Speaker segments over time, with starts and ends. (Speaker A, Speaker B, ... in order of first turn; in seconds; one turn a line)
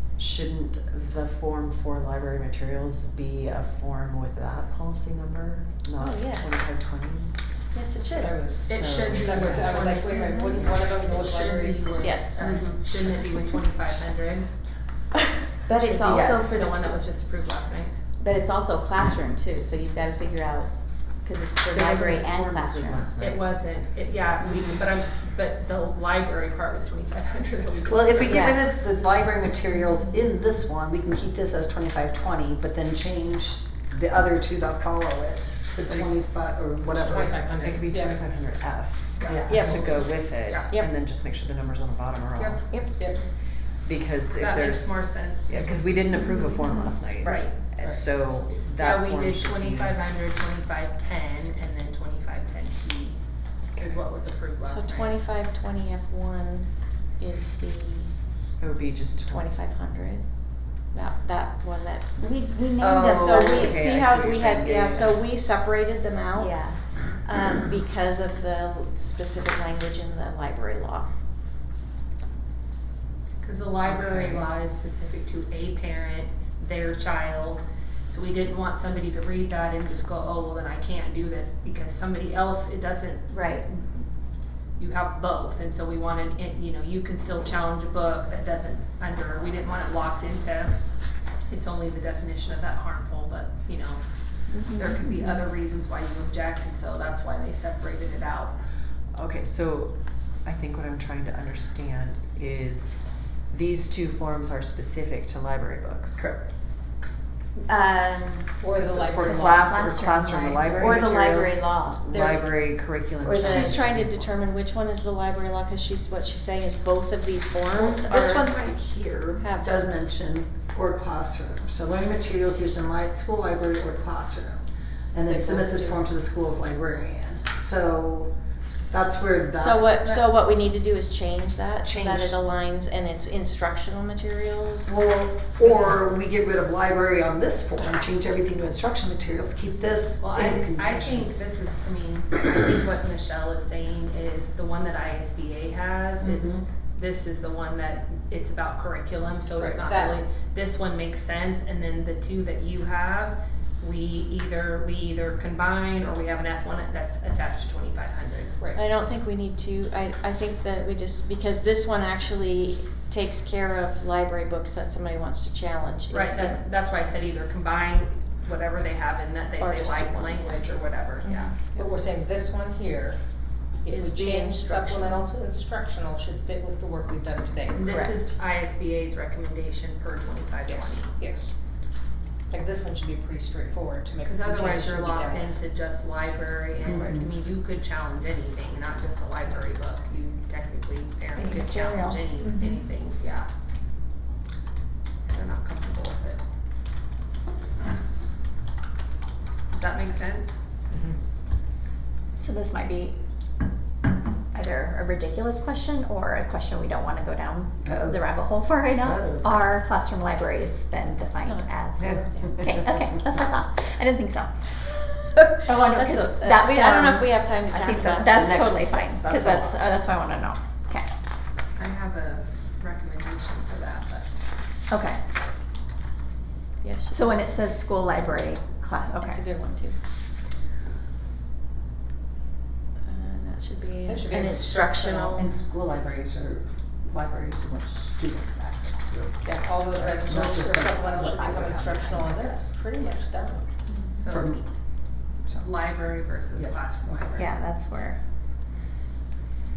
Speaker A: 0.2-7.3
Speaker B: 6.0-6.6
Speaker B: 7.7-8.4
Speaker C: 8.0-12.4
Speaker D: 8.3-9.3
Speaker E: 8.7-14.5
Speaker B: 12.0-12.4
Speaker F: 12.4-12.7
Speaker F: 15.7-16.9
Speaker E: 15.7-17.9
Speaker B: 16.1-16.5
Speaker F: 18.2-20.7
Speaker F: 21.2-23.1
Speaker A: 21.8-23.4
Speaker E: 23.2-28.5
Speaker D: 27.9-37.9
Speaker F: 28.2-28.6
Speaker C: 36.9-38.2
Speaker A: 37.7-42.6
Speaker E: 39.2-40.7
Speaker D: 39.3-39.6
Speaker B: 39.5-40.0
Speaker B: 42.7-43.1
Speaker C: 43.0-43.2
Speaker A: 43.9-50.0
Speaker E: 44.4-45.7
Speaker E: 47.2-48.1
Speaker E: 48.8-53.2
Speaker E: 53.8-55.2
Speaker B: 54.7-56.7
Speaker B: 57.2-58.1
Speaker A: 58.6-59.5
Speaker B: 59.2-60.2
Speaker B: 60.9-62.1
Speaker F: 62.2-63.9
Speaker A: 62.8-65.2
Speaker B: 63.1-66.5
Speaker F: 66.3-66.8
Speaker B: 67.2-71.1
Speaker E: 73.4-83.8
Speaker F: 83.3-83.7
Speaker E: 84.8-90.8
Speaker E: 91.5-94.0
Speaker F: 94.6-95.0
Speaker E: 94.7-98.5
Speaker A: 99.1-99.9
Speaker A: 100.4-103.0
Speaker A: 103.5-106.2
Speaker D: 106.2-106.4
Speaker F: 107.7-112.0
Speaker C: 108.6-109.9
Speaker A: 109.1-114.3
Speaker G: 110.5-111.0
Speaker C: 110.6-111.0
Speaker C: 112.1-112.7
Speaker F: 113.2-113.7
Speaker B: 113.3-118.6
Speaker D: 117.7-124.6
Speaker B: 119.4-119.8
Speaker D: 125.1-128.3
Speaker C: 125.2-126.1
Speaker D: 128.9-130.3
Speaker B: 129.6-135.0
Speaker D: 131.8-132.4
Speaker D: 134.8-141.3
Speaker E: 140.2-158.6
Speaker D: 146.2-146.6
Speaker C: 149.6-150.2
Speaker C: 158.6-158.9
Speaker B: 158.7-166.6
Speaker E: 166.1-171.5
Speaker B: 169.6-171.8
Speaker C: 171.8-173.2
Speaker C: 173.8-178.0
Speaker B: 173.9-175.3
Speaker E: 177.7-181.2
Speaker C: 180.7-181.5
Speaker C: 182.5-185.5
Speaker E: 184.2-193.5
Speaker D: 186.9-187.3
Speaker G: 191.4-192.7
Speaker E: 195.2-196.4
Speaker E: 199.7-200.6
Speaker G: 202.4-203.2
Speaker G: 204.5-212.1
Speaker D: 207.8-208.3
Speaker D: 208.9-209.5
Speaker B: 211.3-212.7
Speaker D: 212.0-212.8
Speaker G: 212.7-217.3
Speaker B: 215.9-218.5
Speaker D: 217.7-219.9
Speaker G: 218.2-221.1
Speaker E: 221.8-224.3
Speaker G: 224.9-225.2
Speaker B: 226.8-227.5
Speaker G: 227.1-229.4
Speaker B: 229.1-230.0
Speaker B: 233.1-235.5
Speaker C: 234.1-235.4
Speaker D: 235.3-242.8
Speaker C: 239.4-243.7
Speaker E: 244.2-244.6
Speaker D: 244.3-244.7
Speaker D: 245.4-245.7
Speaker E: 245.6-247.5
Speaker D: 246.5-247.4
Speaker G: 247.4-248.2